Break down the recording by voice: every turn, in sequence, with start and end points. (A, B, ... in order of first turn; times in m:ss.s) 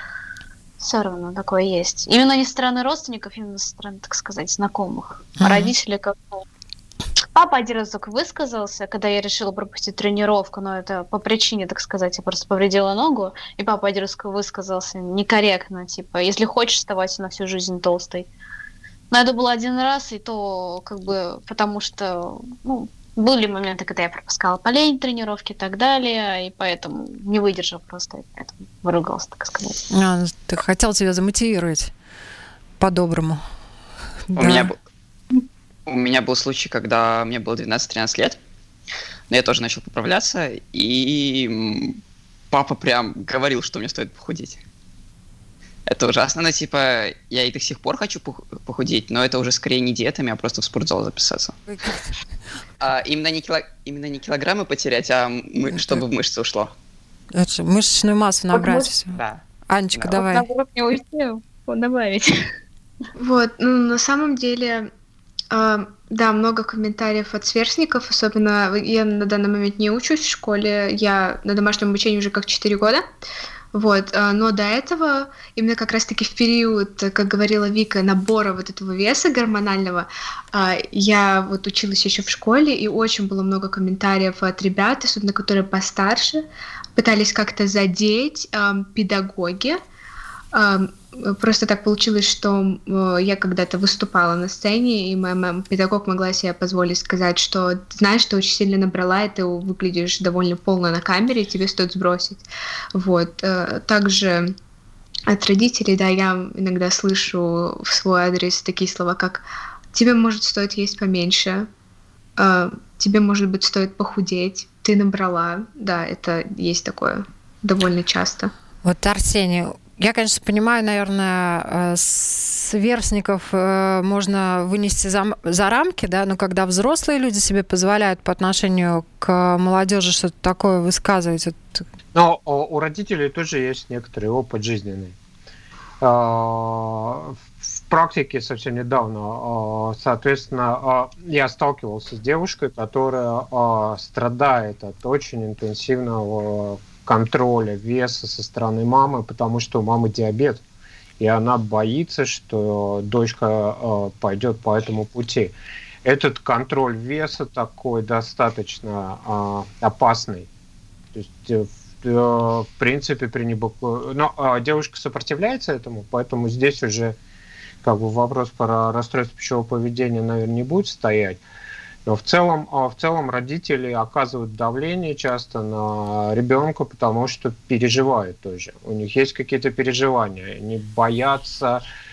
0:00.8-0:06.4 A
0:05.4-0:05.7 B
0:07.3-0:18.3 A
0:19.1-0:29.8 A
0:29.9-0:31.9 B
0:32.8-0:33.4 B
0:34.3-0:34.7 B
0:34.4-0:34.8 C
0:35.9-0:38.4 C
0:39.3-0:42.0 C
0:42.5-0:44.6 C
0:45.9-0:51.6 C
0:52.8-0:56.7 C
0:57.3-1:00.5 B
0:58.5-0:59.4 A
1:00.0-1:02.5 A
1:03.2-1:04.9 D
1:05.5-1:13.0 D
1:13.7-1:29.8 D
1:30.5-1:42.4 D
1:43.0-1:44.5 D
1:45.3-1:51.7 D
1:52.4-1:58.5 D
1:58.8-2:11.8 B
2:12.1-2:15.2 E
2:16.0-2:30.6 E
2:31.2-2:40.5 E
2:41.2-2:47.2 E
2:47.8-2:51.4 E
2:52.1-3:01.8 E